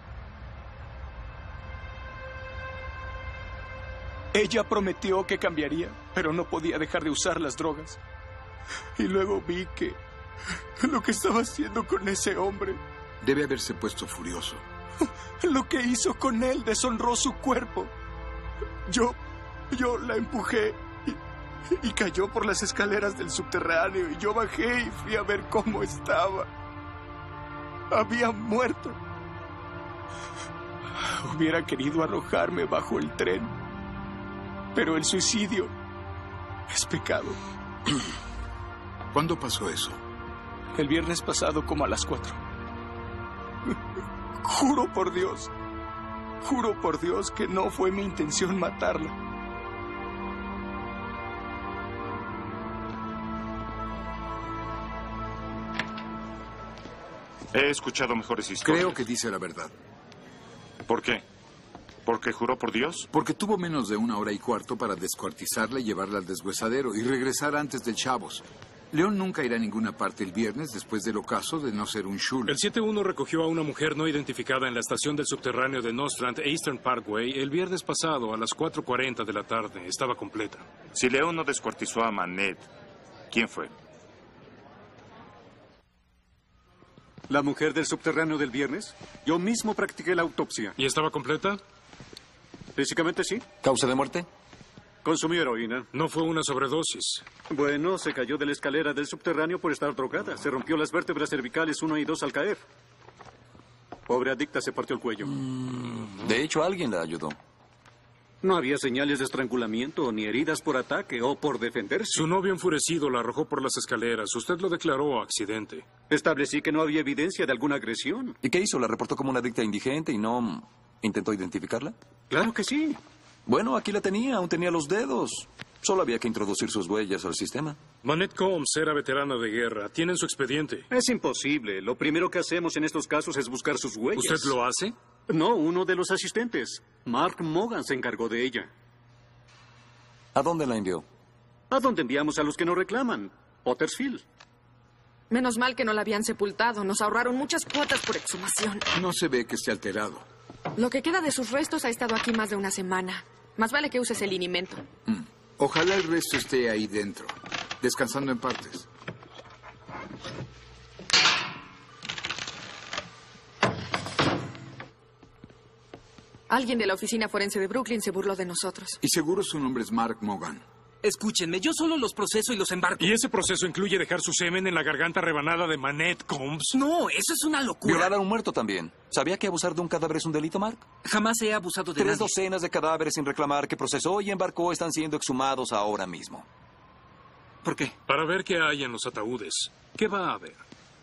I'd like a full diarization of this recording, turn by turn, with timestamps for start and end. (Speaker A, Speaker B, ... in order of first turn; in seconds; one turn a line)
Speaker A: 4.3-8.0
Speaker A: 9.0-10.0
Speaker A: 10.8-12.8
Speaker B: 13.2-14.6
Speaker A: 15.4-17.9
Speaker A: 18.9-19.2
Speaker A: 19.7-21.2
Speaker A: 21.7-26.5
Speaker A: 27.9-29.0
Speaker A: 31.0-33.5
Speaker A: 34.7-35.7
Speaker A: 36.7-37.4
Speaker B: 39.1-40.0
Speaker A: 40.8-42.4
Speaker A: 44.4-45.5
Speaker A: 46.4-49.1
Speaker C: 57.5-59.0
Speaker B: 58.6-59.7
Speaker C: 60.9-61.2
Speaker C: 62.1-63.1
Speaker B: 63.1-72.6
Speaker D: 72.5-80.7
Speaker C: 80.9-82.7
Speaker C: 83.3-83.7
Speaker E: 87.3-90.8
Speaker D: 90.8-91.6
Speaker E: 92.8-93.5
Speaker F: 93.6-94.3
Speaker E: 95.0-95.9
Speaker D: 95.9-97.2
Speaker E: 97.5-102.6
Speaker E: 104.1-105.3
Speaker F: 105.2-107.4
Speaker E: 108.4-112.3
Speaker D: 112.1-115.8
Speaker E: 116.1-118.4
Speaker F: 118.4-122.0
Speaker E: 122.3-123.0
Speaker F: 123.5-127.8
Speaker D: 128.0-130.8
Speaker E: 130.9-134.6
Speaker D: 134.2-134.9
Speaker E: 135.3-138.7
Speaker F: 140.3-141.1
Speaker E: 141.7-144.2
Speaker G: 145.3-148.8
Speaker B: 148.9-150.3
Speaker G: 150.8-154.8
Speaker B: 155.1-158.9
Speaker G: 166.5-169.0
Speaker B: 169.0-170.6
Speaker H: 171.0-173.2
Speaker D: 173.0-176.8
Speaker H: 176.7-178.1
Speaker F: 177.8-180.8
Speaker H: 181.1-182.3
Speaker F: 182.0-186.5
Speaker H: 187.7-187.9
Speaker D: 188.1-190.6